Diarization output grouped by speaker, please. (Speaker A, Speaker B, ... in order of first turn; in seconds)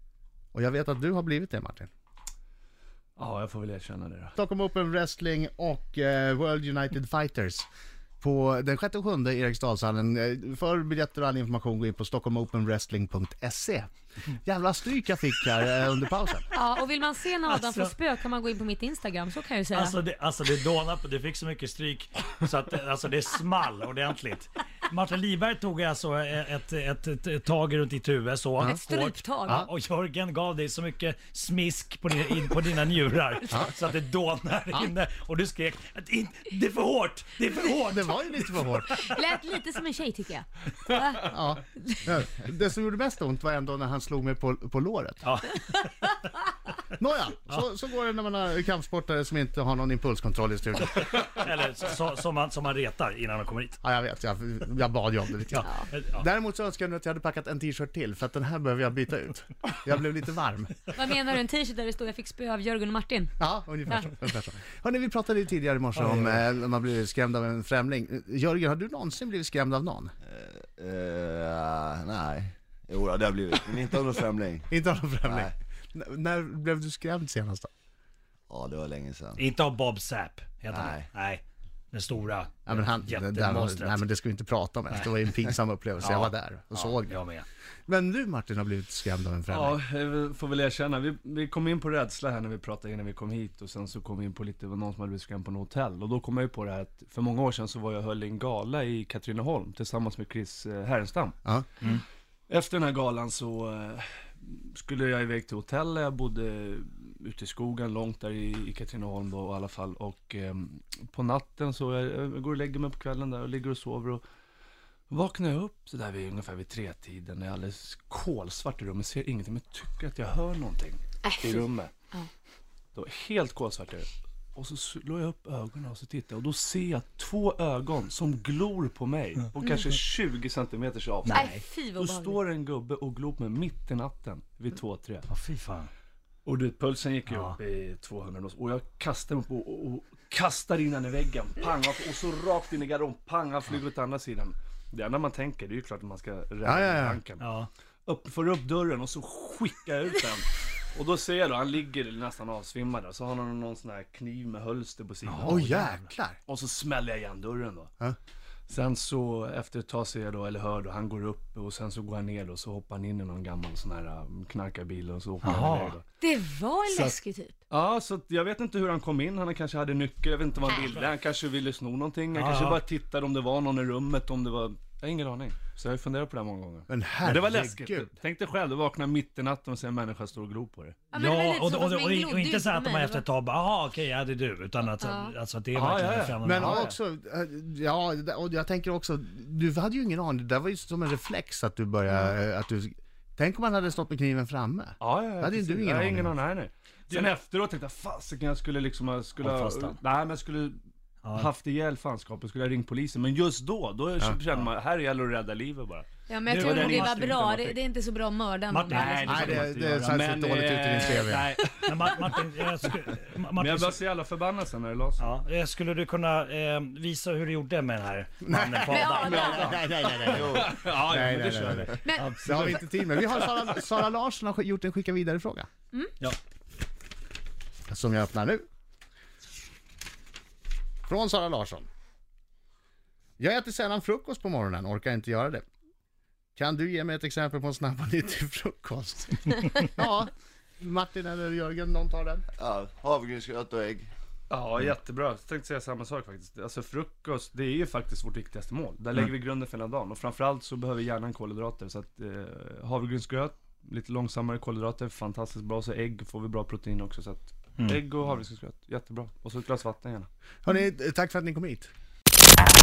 Speaker A: 0.5-1.9, 4.4-7.7, 8.2-13.9, 14.4-16.5, 37.9-38.9, 41.2-45.2, 47.0-50.9, 53.8-60.8, 63.4-70.1, 74.7-77.7, 82.7-87.2, 87.9-89.8, 146.6-147.2, 155.4-156.4, 176.9-178.1, 186.4-196.3, 209.2-211.6, 218.4-225.7, 227.9-228.7, 231.1-231.9, 233.4-235.6, 236.6-242.4, 260.6-261.9
Speaker B: 3.2-4.4, 89.5-101.4, 102.5-114.2, 115.1-121.9, 122.9-135.3, 136.4-147.4, 148.1-155.7, 156.5-157.9, 158.7-166.1, 166.9-167.2, 167.7-181.1, 185.8-186.9, 195.0-200.8, 201.3-207.8, 208.9-212.4, 213.6-215.3, 219.2-223.8, 244.5-260.3
Speaker C: 16.5-20.0, 28.7-29.6, 38.9-42.0, 60.9-63.4, 121.2-122.3, 131.3-132.4, 166.1-167.6, 181.1-183.2, 185.0-185.3, 192.1-192.4, 206.3-209.3, 218.8-220.2, 222.0-222.4
Speaker D: 17.5-17.9, 19.7-39.0, 45.2-46.2, 51.0-53.8, 55.5-56.2, 66.0-66.4, 79.3-84.0, 86.0-87.5, 131.2-131.7, 135.3-135.9, 137.3-137.6, 147.4-147.7, 155.2-156.1, 165.4-166.0, 172.3-172.8, 181.1-186.9, 199.4-200.0, 201.2-201.5, 206.5-207.3, 208.7-214.0, 215.2-219.7
Speaker E: 70.2-75.5, 78.5-79.4, 80.7-81.1, 220.3-220.8, 242.6-244.1